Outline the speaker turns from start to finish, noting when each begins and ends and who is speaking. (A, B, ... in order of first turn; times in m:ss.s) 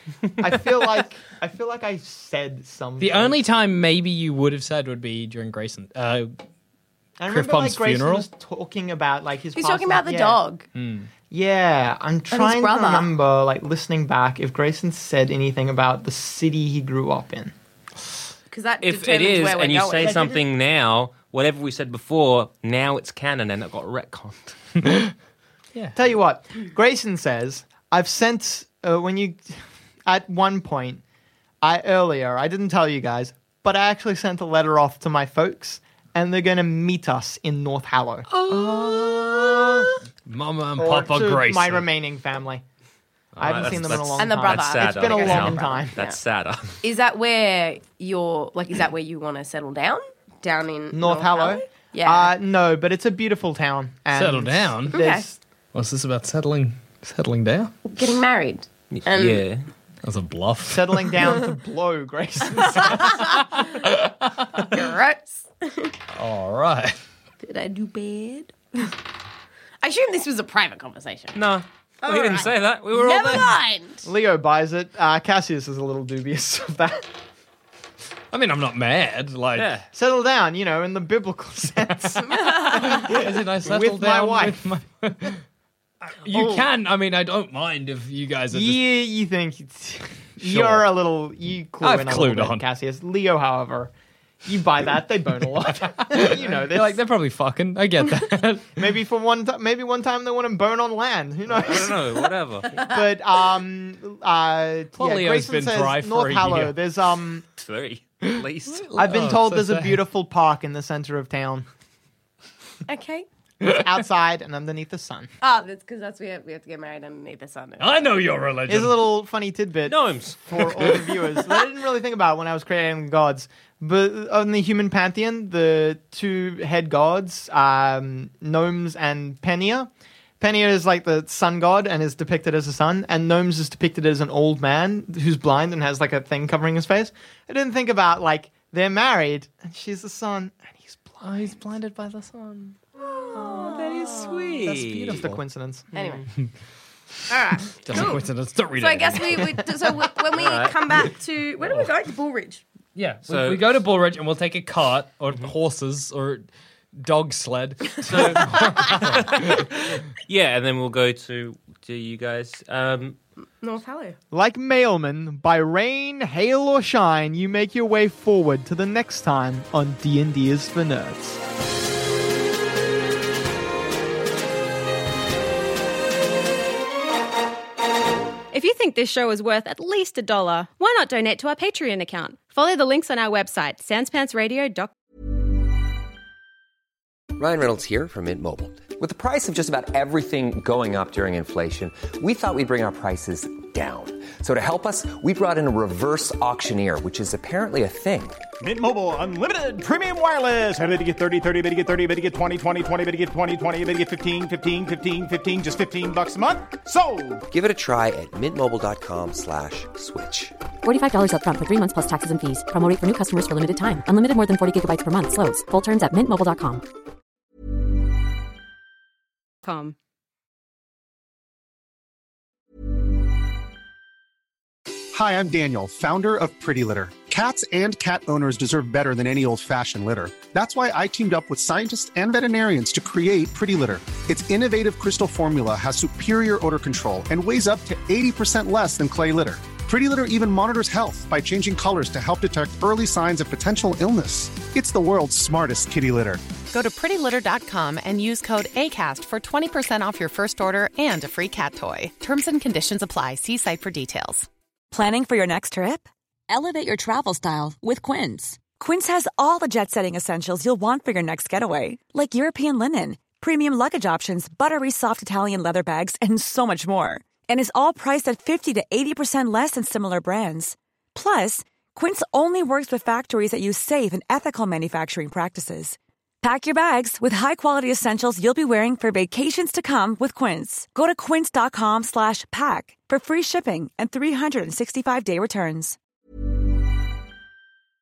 0:00.4-0:03.4 A
0:03.0-0:06.4 B
0:07.2-0:10.4 A
0:07.3-0:08.3 B
0:09.5-0:10.6 C
0:10.7-0:11.1 B
0:11.3-0:17.5 A
0:12.3-0:13.1 C
0:18.5-0:20.4 C
0:18.8-0:24.6 D
0:24.8-0:25.1 B
0:25.9-0:31.0 A
0:31.6-0:39.9 A
0:38.5-0:41.9 B
0:40.8-0:42.6 A
0:43.3-0:44.0 B
0:43.4-0:46.0 A
0:43.4-0:46.8 D
0:44.2-0:46.2 C
0:46.8-0:52.3 C
0:50.9-0:55.4 A
0:54.1-0:55.0 B
0:54.9-0:55.2 C
0:55.7-0:57.7 B
0:57.8-0:59.4 C
0:58.9-0:59.6 D
1:00.0-1:01.3 B
1:00.6-1:03.2 A
1:02.7-1:04.7 B
1:02.9-1:03.6 C
1:04.6-1:05.9 C
1:06.1-1:07.0 B
1:07.4-1:09.0 C
1:09.8-1:11.4 C
1:11.3-1:13.5 D
1:12.0-1:14.1 C
1:14.0-1:17.1 A
1:18.3-1:19.7 B
1:19.5-1:19.9 D
1:19.9-1:24.6 A
1:22.2-1:23.0 C
1:22.7-1:25.4 B
1:26.0-1:28.8 B
1:28.5-1:33.9 A
1:30.4-1:30.9 B
1:31.8-1:32.6 B
1:34.4-1:37.0 A
1:36.0-1:38.8 B
1:38.8-1:42.0 A
1:41.5-1:42.8 D
1:42.7-1:47.4 A
1:44.9-1:46.8 B
1:47.5-1:49.3 D
1:48.2-1:50.0 B
1:49.0-1:51.7 A
1:52.9-1:53.2 C
1:53.6-1:55.3 A
1:55.4-1:58.0 C
1:57.8-1:59.1 B
1:58.7-2:09.9 A
1:59.9-2:00.6 D
2:10.4-2:21.3 A
2:21.2-2:22.8 B
2:23.3-2:25.4 B
2:23.5-2:25.2 D
2:25.0-2:25.9 A
2:25.9-2:26.3 C
2:26.0-2:26.2 D
2:27.3-2:28.2 C
2:27.8-2:28.2 D
2:27.8-2:29.6 B
2:28.8-2:32.6 C
2:30.3-2:30.8 D
2:31.6-2:31.9 B
2:32.9-2:39.8 B
2:33.3-2:33.7 D
2:38.0-2:43.2 D
2:43.6-2:44.2 C
2:44.3-2:51.4 A
2:58.5-3:04.9 E
3:07.4-3:18.4 F
3:18.6-3:27.4 G
3:27.5-3:30.5 F
3:30.8-3:36.8 H
3:39.6-3:39.9 E
3:45.1-4:06.4 I
4:06.7-4:14.5 J
4:14.9-4:46.0 K